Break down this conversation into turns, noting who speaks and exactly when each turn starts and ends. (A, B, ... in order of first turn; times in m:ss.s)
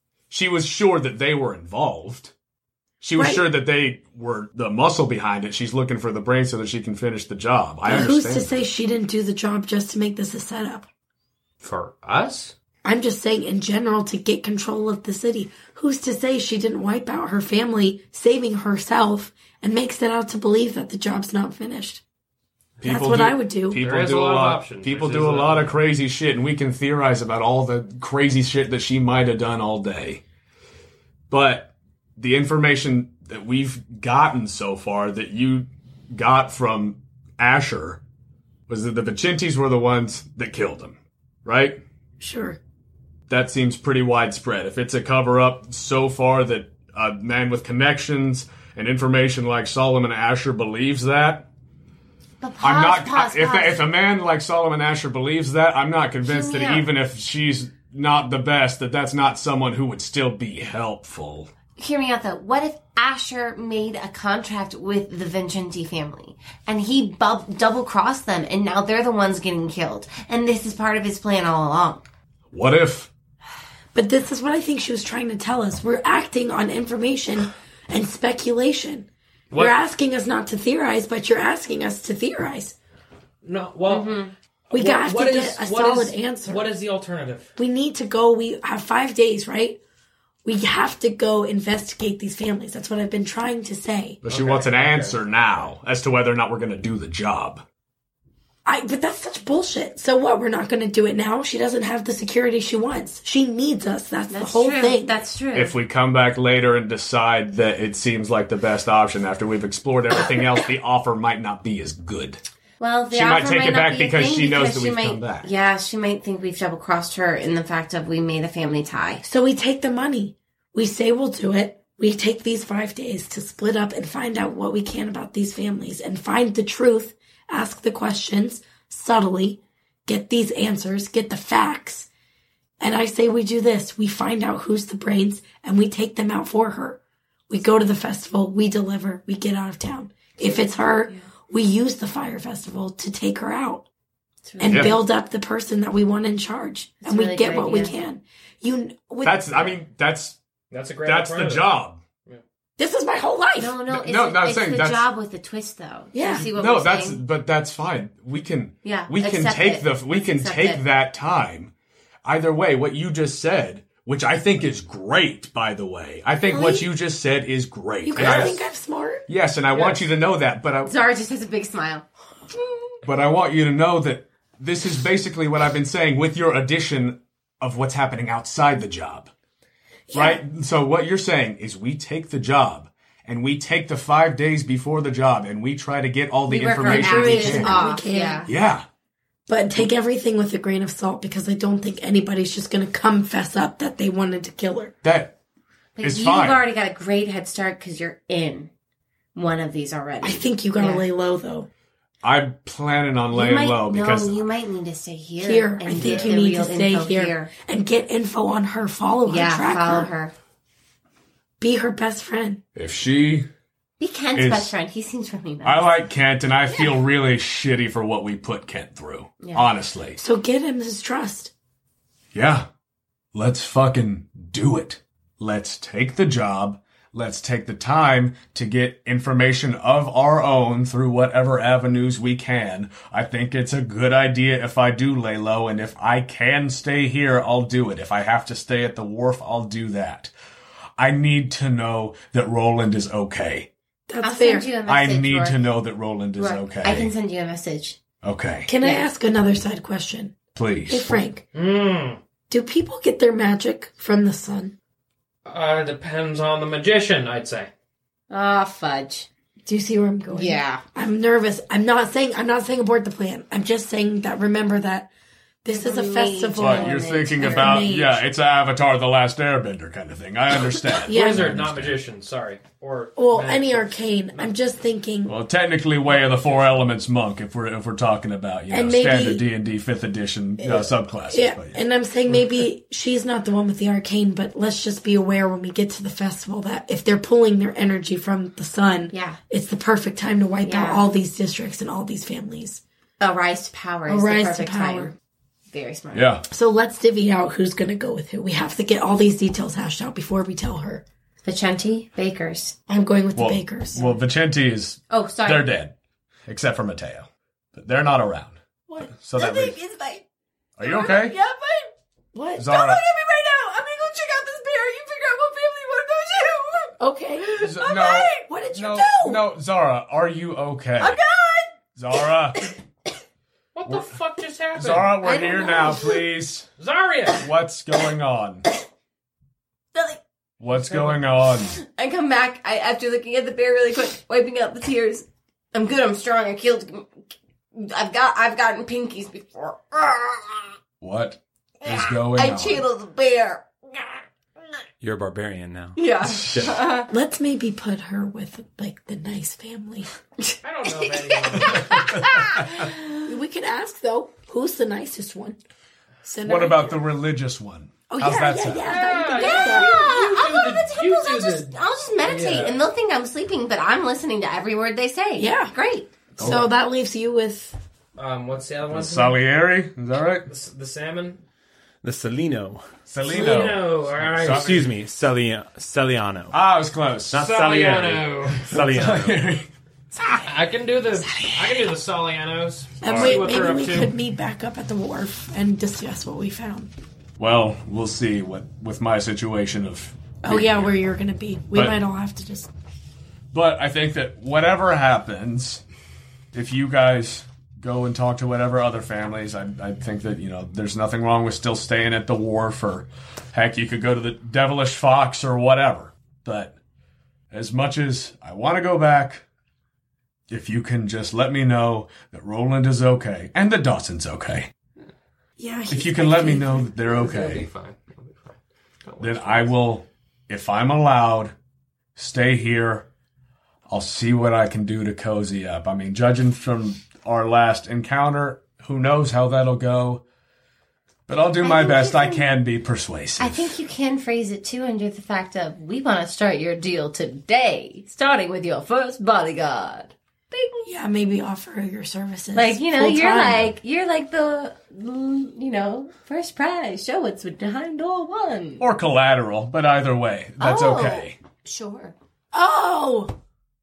0:00.3-0:02.3 A
0:03.0-0:08.6 A
0:03.2-0:03.4 B
0:07.8-0:10.9 B
0:11.6-0:12.5 C
0:12.8-0:22.0 B
0:22.8-0:30.2 A
0:22.8-0:23.8 B
0:23.8-0:25.8 C
0:31.3-0:38.0 A
0:38.7-0:41.8 A
0:42.2-0:42.6 B
0:43.3-0:51.5 A
0:52.4-0:53.8 D
0:52.6-1:01.5 A
0:56.2-0:56.9 D
1:01.8-1:12.0 D
1:12.5-1:13.1 A
1:13.9-1:22.7 B
1:23.4-1:24.2 C
1:23.9-1:24.3 D
1:24.7-1:27.5 C
1:24.7-1:26.7 B
1:27.6-1:29.8 B
1:30.4-1:34.2 B
1:34.2-1:37.6 A
1:34.3-1:35.2 C
1:38.6-1:45.1 B
1:44.3-1:45.8 D
1:45.5-1:52.4 A
1:52.8-1:59.2 D
1:53.1-1:55.5 A
1:59.2-2:12.1 B
2:12.8-2:23.8 B
2:20.4-2:21.2 D
2:24.4-2:24.9 D
2:24.6-2:29.7 B
2:24.7-2:25.0 A
2:27.0-2:27.9 D
2:29.2-2:30.4 A
2:30.7-2:31.7 C
2:31.0-2:32.0 A
2:32.8-2:33.8 B
2:33.6-2:37.2 D
2:33.9-2:35.1 A
2:36.1-2:36.5 B
2:36.5-2:41.7 A
2:38.8-2:40.8 D
2:42.2-2:48.7 A
2:46.5-2:46.8 D
2:48.0-2:49.2 B
2:48.2-2:48.5 C
2:49.3-2:50.9 A
2:49.7-2:50.0 C
2:50.8-2:52.0 D
2:53.0-2:59.3 A
3:00.1-3:00.4 B
3:00.1-3:07.9 A
3:06.5-3:08.5 D
3:06.8-3:08.5 B
3:08.4-3:08.8 A
3:09.5-3:15.0 B
3:15.0-3:15.3 A
3:16.0-3:18.7 D
3:16.0-3:16.6 A
3:19.3-3:21.0 D
3:20.2-3:21.7 B
3:22.2-3:24.4 A
3:23.3-3:27.5 D
3:25.4-3:30.1 B
3:25.9-3:26.3 A
3:29.3-3:30.3 D
3:31.6-3:32.6 B
3:32.7-3:33.5 A
3:34.0-3:35.9 D
3:34.3-3:34.7 A
3:35.6-3:40.2 A
3:39.4-3:39.7 D
3:40.2-3:41.5 B
3:42.3-3:42.6 A
3:43.3-4:00.3 A
4:01.0-4:03.7 A
4:04.1-4:04.7 B
4:04.2-4:05.6 D
4:04.8-4:07.1 A
4:06.4-4:08.0 D
4:08.2-4:08.7 A
4:08.7-4:10.4 B
4:10.5-4:11.2 A
4:10.9-4:11.4 B
4:11.5-4:12.2 C
4:12.5-4:14.7 B
4:15.4-4:17.7 C
4:18.3-4:19.3 D
4:19.6-4:25.1 B
4:20.3-4:20.8 D
4:25.6-4:28.2 B
4:25.7-4:27.8 D
4:26.6-4:32.0 A
4:31.1-4:31.5 B
4:31.1-4:34.5 C
4:33.2-4:35.4 B
4:35.3-4:41.8 A
4:36.1-4:36.8 C
4:38.7-4:39.5 B
4:40.6-4:52.8 B
4:49.1-4:49.4 D
4:50.6-4:51.0 D
4:53.2-4:55.1 D
4:54.1-4:55.1 B
4:55.7-4:56.3 D
4:56.1-4:56.4 A
4:56.5-5:01.0 B
5:01.4-5:02.8 D
5:02.9-5:04.2 B
5:03.4-5:05.9 A
5:05.1-5:05.7 D
5:06.5-5:08.6 A
5:08.9-5:10.2 D
5:09.2-5:09.8 A
5:10.8-5:11.4 A
5:10.8-5:11.9 D
5:12.3-5:12.8 B
5:12.6-5:13.0 A
5:12.7-5:18.3 D
5:17.0-5:19.5 B
5:17.6-5:21.2 A
5:21.0-5:21.7 D
5:22.0-5:22.7 A
5:23.7-5:25.2 C
5:23.8-5:24.1 A
5:24.7-5:26.7 A
5:25.2-5:26.2 D
5:26.8-5:27.4 C
5:27.4-5:28.6 A
5:29.9-5:30.2 D
5:30.6-5:31.8 A
5:30.7-5:31.2 C
5:31.7-5:40.7 D
5:41.0-5:42.8 A
5:41.8-5:44.2 D
5:45.0-5:46.7 E
5:46.0-5:47.1 D
5:47.1-5:50.1 B
5:50.4-5:53.3 D
5:50.6-5:52.0 C
5:51.9-5:52.2 A
5:53.2-5:55.6 B
5:56.2-5:57.0 B
5:56.4-5:58.9 A
5:58.1-5:59.9 B
5:58.8-6:02.8 C
5:59.0-6:06.1 D
6:05.4-6:05.7 B
6:06.4-6:06.8 A
6:06.4-6:07.8 B
6:08.2-6:09.4 C
6:08.9-6:10.5 A
6:10.5-6:11.4 C
6:12.0-6:12.8 E
6:13.1-6:14.9 A
6:13.2-6:14.8 C
6:13.3-6:13.7 B
6:14.4-6:16.6 E
6:16.5-6:17.4 A
6:17.3-6:19.4 E
6:17.3-6:18.6 C
6:18.7-6:19.6 A
6:20.4-6:24.1 C
6:23.0-6:26.9 B
6:23.0-6:23.6 A
6:27.4-6:30.9 A
6:30.4-6:32.7 B
6:31.7-6:32.0 A
6:33.5-6:35.8 A
6:36.5-6:46.8 A
6:47.5-6:49.4 A
6:50.5-6:54.7 A
6:55.6-6:56.9 B
6:55.9-6:57.7 A
6:57.0-6:59.8 C
6:59.2-7:01.5 A
7:02.2-7:03.1 A
7:03.9-7:10.2 A
7:11.3-7:13.7 A
7:11.6-7:12.5 D
7:13.4-7:20.9 D
7:20.8-7:23.7 B
7:22.5-7:28.9 D
7:28.8-7:31.4 A
7:30.6-7:32.1 D
7:32.5-7:33.3 B